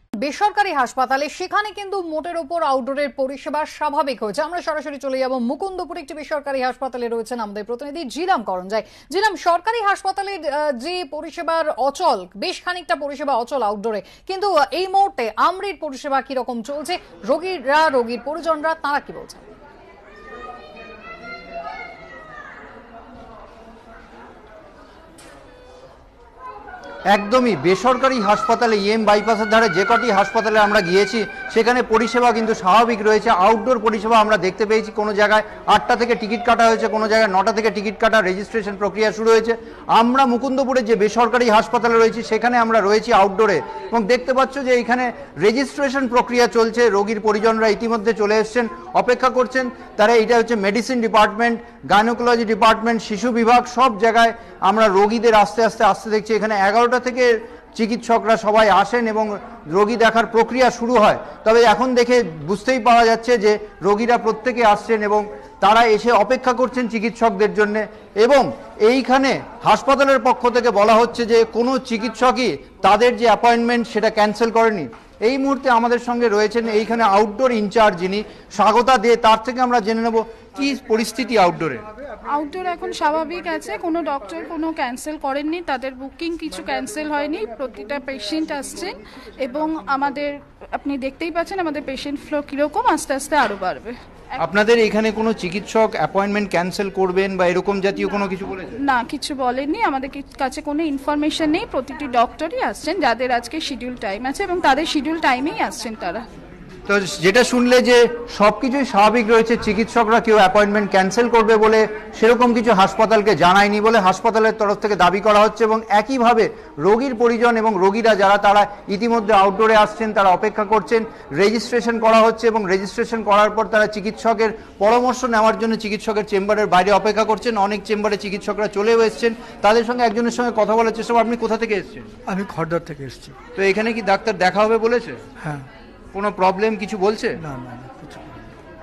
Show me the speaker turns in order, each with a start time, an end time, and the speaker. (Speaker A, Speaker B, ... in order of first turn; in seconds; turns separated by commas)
Speaker A: 0.2-19.5, Speaker B: 27.1-81.8, Speaker C: 82.2-94.0, Speaker B: 94.4-98.8, Speaker C: 98.8-106.2, Speaker B: 106.9-132.1, Speaker D: 132.3-133.4, Speaker B: 133.6-135.2, Speaker D: 135.4-135.7, Speaker B: 136.1-137.4, Speaker D: 137.4-138.4